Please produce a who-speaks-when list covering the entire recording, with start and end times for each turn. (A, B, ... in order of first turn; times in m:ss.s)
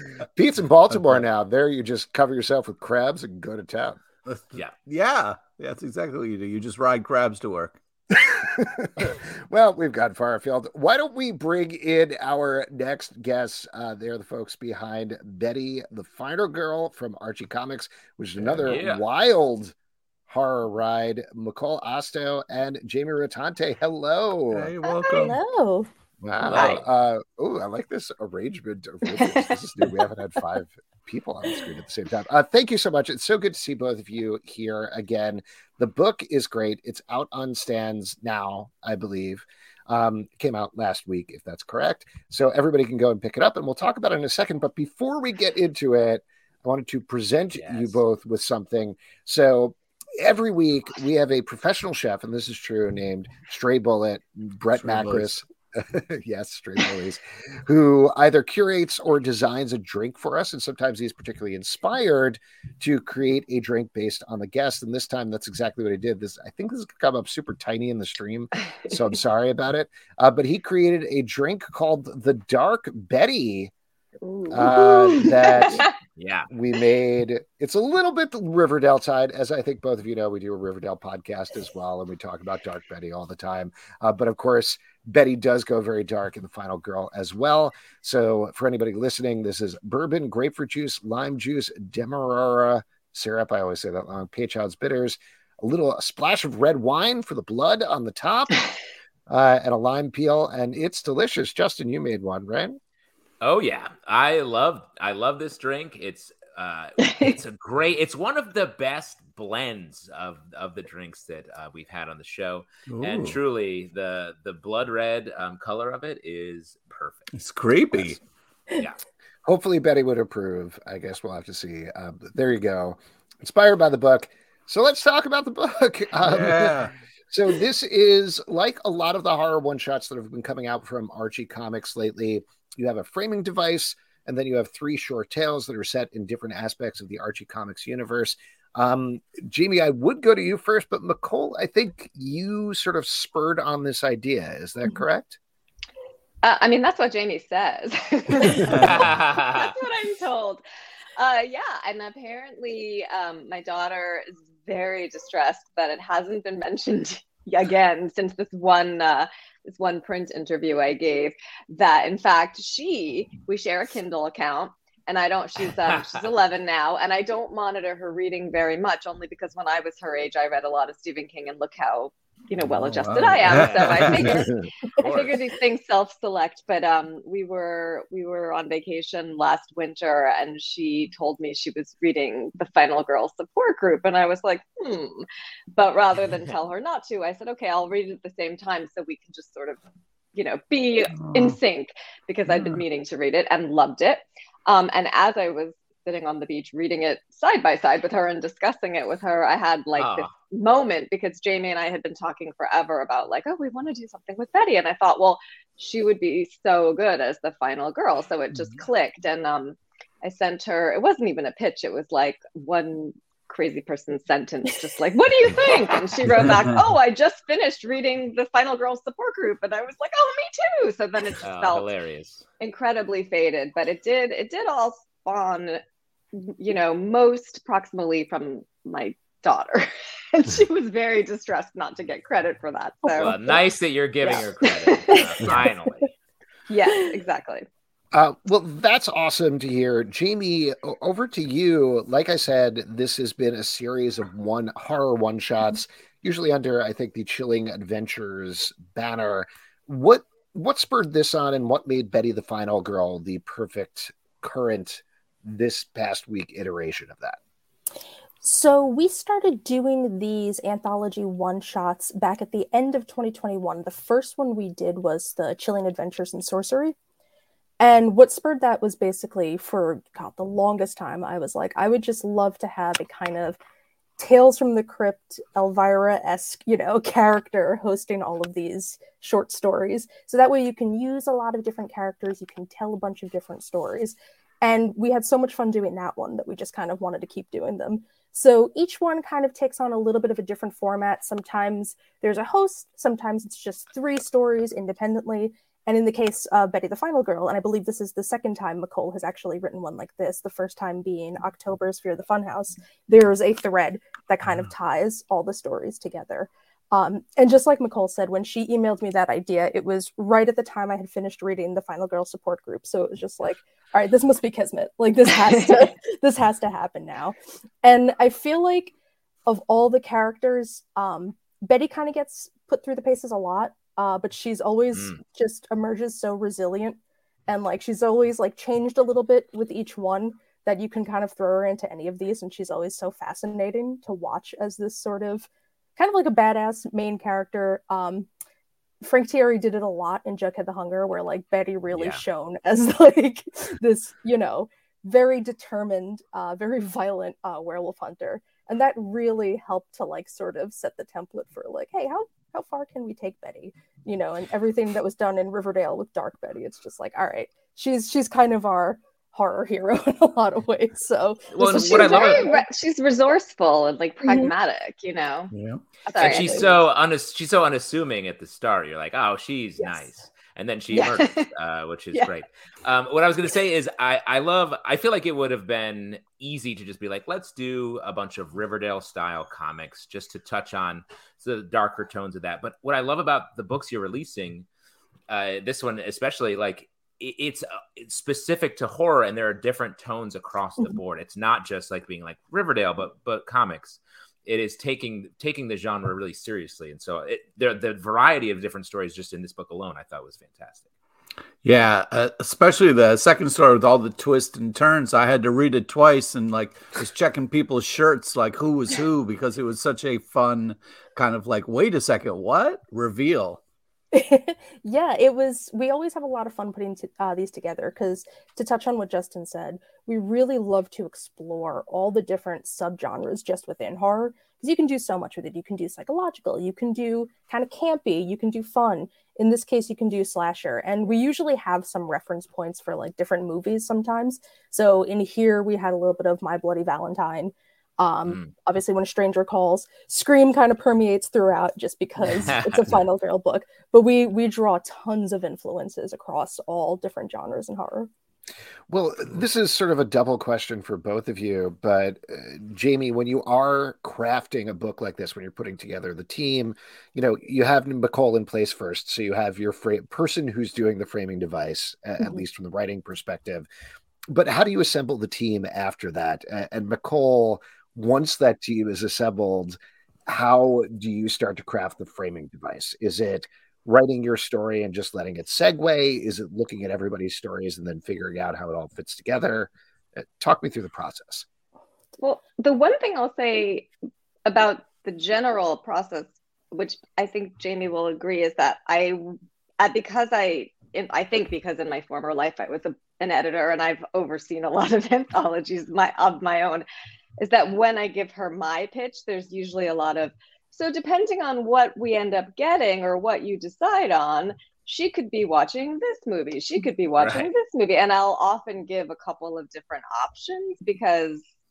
0:00.4-0:04.0 A
0:00.9-0:01.2 B
0:04.2-0:07.8 B
0:08.2-0:19.7 A
0:18.4-0:18.7 B
0:18.6-0:19.0 C
0:20.3-0:24.7 A
0:24.5-0:25.4 B
0:25.0-0:25.9 D
0:26.2-1:13.7 A
0:26.4-0:26.8 C
0:29.2-0:29.5 E
0:47.5-0:48.0 C
0:54.8-0:55.4 B
1:14.2-1:14.7 E
1:14.5-1:15.9 A
1:15.3-1:15.9 E
1:16.2-1:16.5 C
1:16.5-1:38.7 A
1:39.3-1:42.8 A
1:43.4-1:57.3 C
1:47.1-1:47.3 E
1:52.9-1:53.4 B
1:57.3-1:58.2 B
1:59.4-2:25.4 A
2:06.2-2:06.9 B
2:26.4-2:30.6 E
2:28.7-2:29.7 C
2:31.2-3:09.8 E
2:45.9-2:46.2 C
2:52.6-2:54.5 B
2:53.4-2:55.4 C
3:10.3-3:41.9 E
3:11.1-3:11.6 B
3:12.5-3:12.8 B
3:20.0-3:20.3 C
3:41.4-3:42.4 C
3:42.6-3:45.8 E
3:46.3-3:53.5 E
3:53.0-3:53.6 D
3:53.2-3:56.1 C
3:54.2-3:55.6 E
3:56.7-3:57.6 E
3:58.1-4:17.4 A
4:18.4-4:26.9 D
4:27.8-4:33.6 D
4:34.2-5:18.9 D
5:19.4-5:38.3 D
5:39.0-6:02.6 D
5:41.9-5:42.2 C
6:01.5-6:02.5 C
6:01.6-6:05.5 E
6:04.2-6:04.5 D
6:05.5-6:05.8 B
6:06.1-6:06.8 E
6:06.2-6:24.6 C
6:06.2-6:06.7 D
6:10.9-6:11.5 E
6:25.3-6:40.8 C
6:41.6-6:53.6 B
6:54.1-7:28.1 D
7:18.2-7:18.5 C
7:22.5-7:22.9 C
7:28.9-7:43.7 A
7:44.3-8:01.4 A
8:02.2-8:03.9 E
8:04.4-8:16.8 E
8:17.4-8:31.4 E
8:27.2-8:27.5 C